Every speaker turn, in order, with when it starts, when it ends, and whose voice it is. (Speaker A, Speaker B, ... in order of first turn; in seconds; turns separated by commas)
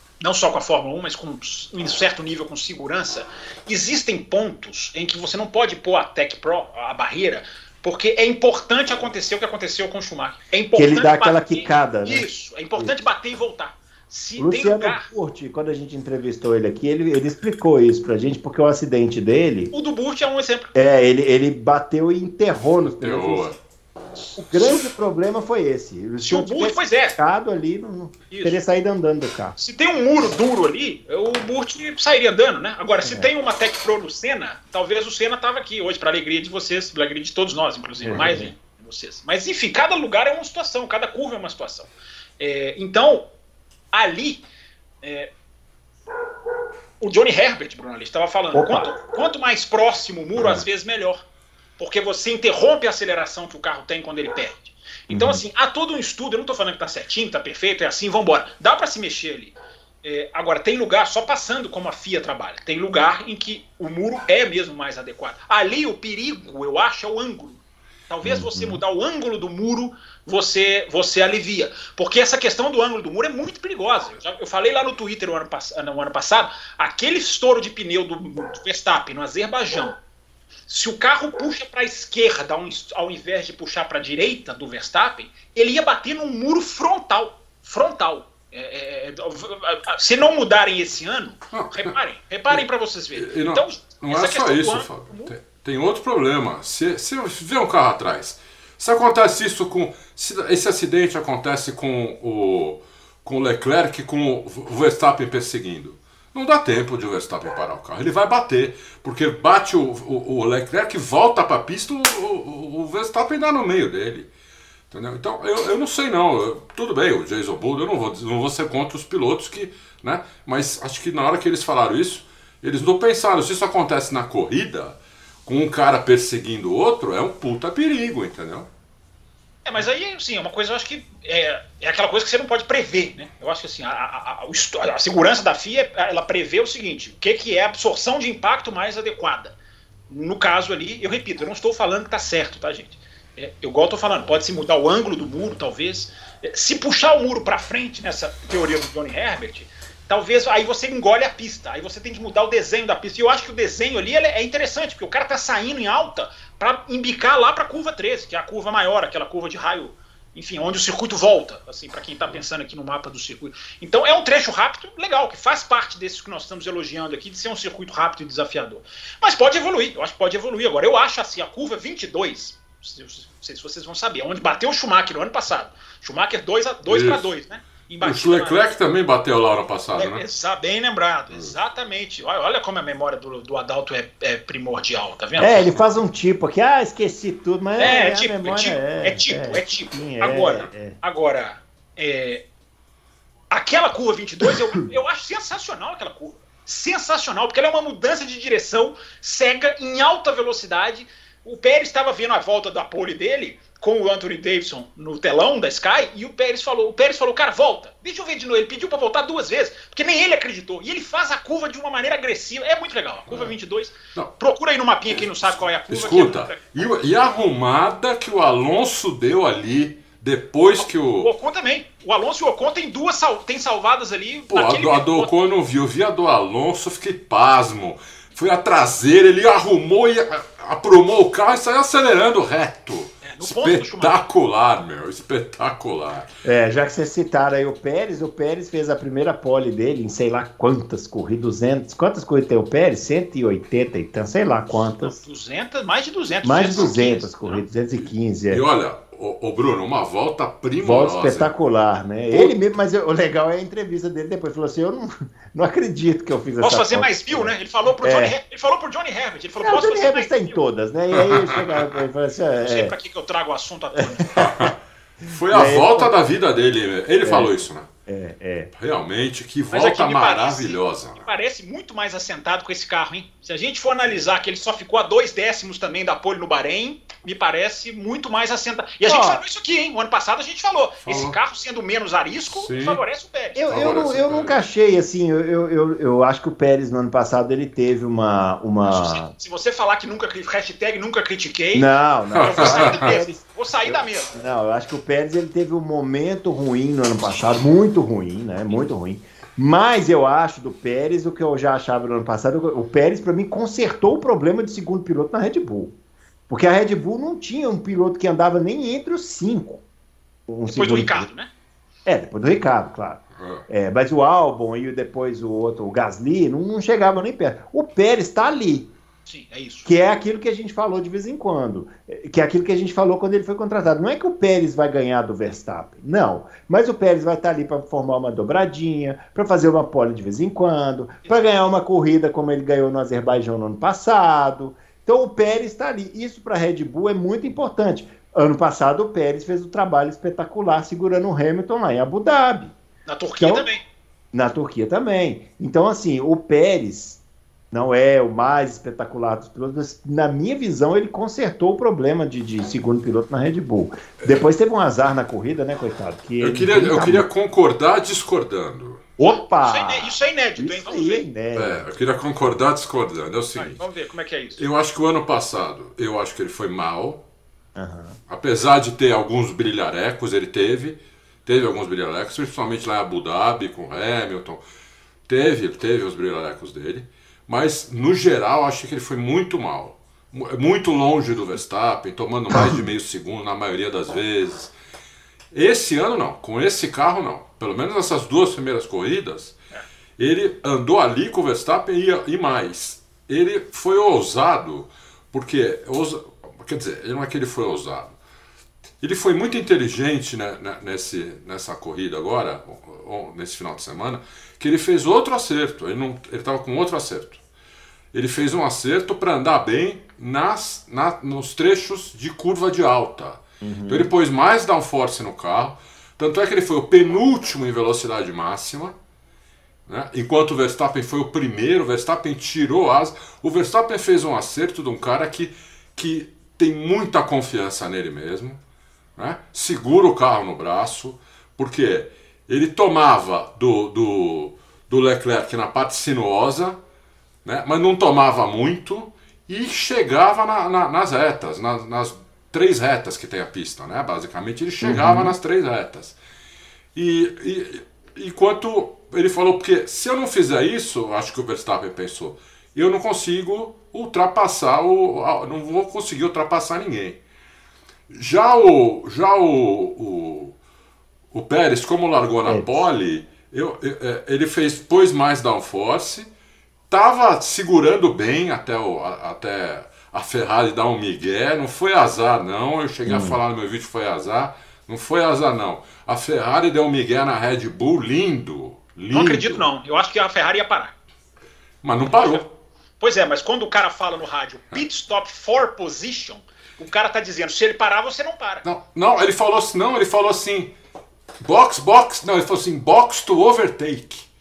Speaker A: 0.2-15.1, Speaker B: 10.8-12.9, Speaker B: 14.4-19.7, Speaker A: 19.7-20.7, Speaker B: 20.8-23.6, Speaker C: 22.6-23.6, Speaker A: 24.2-24.9, Speaker B: 24.4-29.6, Speaker A: 26.2-27.2, Speaker A: 28.3-28.6, Speaker A: 29.6-41.9, Speaker B: 38.0-38.5, Speaker A: 42.4-43.3, Speaker A: 43.9-44.5, Speaker A: 45.0-45.3, Speaker A: 47.0-51.2, Speaker B: 48.5-48.9, Speaker B: 50.4-50.6, Speaker A: 51.8-80.0, Speaker B: 55.1-55.4, Speaker B: 68.2-68.8, Speaker A: 80.7-95.3, Speaker C: 91.5-92.0, Speaker C: 93.2-114.3, Speaker C: 114.9-128.7, Speaker A: 129.7-139.6, Speaker A: 140.1-178.6, Speaker C: 176.9-177.3, Speaker C: 178.0-180.2, Speaker A: 180.0-185.8, Speaker B: 185.4-191.0, Speaker A: 187.8-192.4, Speaker A: 193.5-216.6, Speaker C: 213.3-213.5, Speaker C: 215.4-221.3, Speaker A: 220.8-225.3, Speaker C: 224.5-236.3, Speaker A: 233.2-234.2, Speaker B: 236.4-245.2, Speaker A: 245.0-247.6, Speaker B: 246.4-248.6, Speaker C: 248.0-251.5, Speaker B: 250.8-258.4, Speaker A: 256.6-260.5, Speaker B: 259.6-262.9, Speaker C: 261.1-262.0, Speaker A: 262.6-264.3, Speaker B: 264.2-264.7, Speaker C: 264.4-267.9, Speaker B: 265.5-266.1, Speaker B: 267.2-268.7, Speaker C: 268.8-271.3, Speaker A: 269.7-283.6, Speaker B: 279.1-279.4, Speaker C: 281.1-281.4, Speaker C: 282.5-283.0, Speaker B: 283.6-289.3, Speaker C: 283.7-284.6, Speaker A: 288.8-294.4, Speaker B: 291.7-305.9, Speaker C: 292.3-293.1, Speaker B: 306.5-309.8, Speaker B: 310.5-311.3, Speaker A: 310.7-311.5, Speaker B: 312.1-318.9, Speaker C: 313.4-313.6, Speaker A: 319.3-319.9, Speaker B: 319.9-342.7, Speaker A: 343.1-343.8, Speaker B: 343.4-343.7, Speaker B: 344.3-347.2, Speaker B: 347.7-357.3, Speaker C: 356.4-359.0, Speaker B: 359.2-361.9, Speaker A: 359.2-361.2, Speaker C: 361.6-363.9, Speaker A: 363.6-364.6, Speaker C: 364.6-367.2, Speaker B: 367.8-368.2, Speaker C: 368.3-374.6, Speaker C: 375.3-384.7, Speaker C: 385.5-389.6, Speaker C: 390.2-398.1, Speaker C: 399.0-407.4, Speaker C: 408.1-418.9, Speaker B: 413.6-414.1, Speaker C: 419.9-428.6, Speaker C: 429.2-436.8, Speaker C: 437.4-446.1, Speaker B: 444.8-445.3, Speaker C: 446.9-457.2, Speaker C: 458.1-460.6, Speaker C: 461.3-466.3, Speaker B: 462.5-462.8, Speaker C: 466.9-479.7, Speaker B: 473.1-473.4, Speaker A: 479.1-480.9, Speaker C: 481.8-482.5, Speaker A: 482.1-482.4, Speaker A: 483.0-488.6, Speaker C: 488.6-490.7, Speaker C: 491.4-494.3